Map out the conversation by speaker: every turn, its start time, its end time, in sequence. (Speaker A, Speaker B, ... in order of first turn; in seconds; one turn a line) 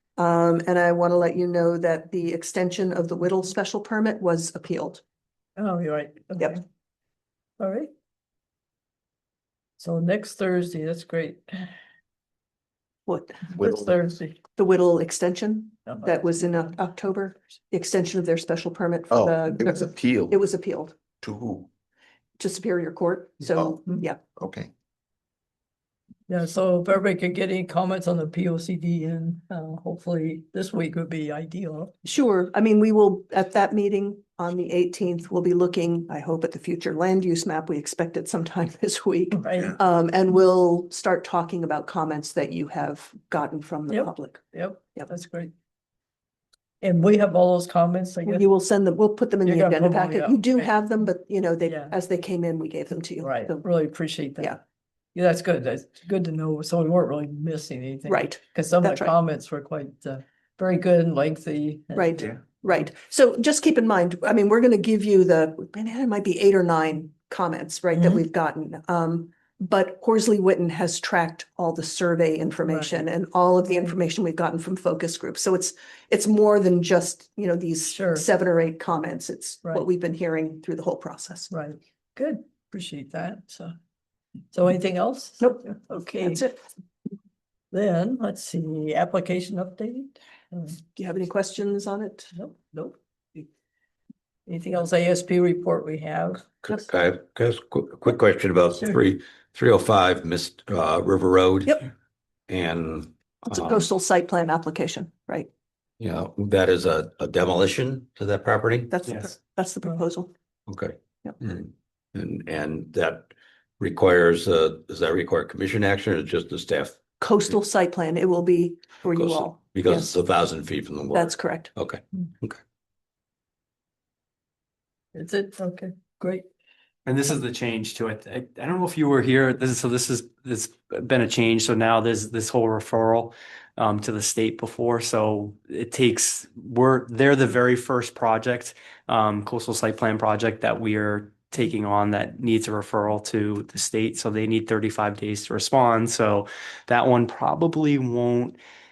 Speaker A: 0.2-5.0
Speaker B: 5.6-6.6
Speaker B: 7.6-7.9
Speaker B: 9.8-11.7
Speaker A: 13.1-13.5
Speaker B: 13.5-14.4
Speaker C: 13.6-14.1
Speaker A: 14.6-21.0
Speaker B: 15.9-16.2
Speaker C: 19.1-20.4
Speaker C: 21.2-21.7
Speaker A: 22.4-24.2
Speaker C: 23.6-23.8
Speaker C: 24.4-24.7
Speaker B: 26.3-31.9
Speaker A: 32.0-45.1
Speaker B: 39.3-39.8
Speaker B: 43.9-45.5
Speaker B: 46.8-48.5
Speaker A: 48.2-53.7
Speaker B: 49.4-50.7
Speaker B: 51.6-52.0
Speaker B: 53.2-54.6
Speaker B: 55.1-62.6
Speaker A: 58.1-59.1
Speaker A: 61.9-81.5
Speaker B: 67.9-68.2
Speaker B: 72.7-73.1
Speaker B: 77.8-78.3
Speaker B: 81.5-83.7
Speaker B: 84.5-86.4
Speaker A: 85.4-86.6
Speaker B: 87.7-90.8
Speaker A: 91.0-92.3
Speaker B: 92.3-93.5
Speaker B: 94.5-96.7
Speaker D: 96.6-101.8
Speaker D: 102.5-103.8
Speaker A: 103.5-105.5
Speaker D: 106.0-108.9
Speaker A: 108.9-110.3
Speaker D: 110.7-117.0
Speaker A: 117.2-120.2
Speaker D: 119.1-122.6
Speaker A: 121.1-121.7
Speaker B: 125.1-126.5
Speaker E: 127.1-148.6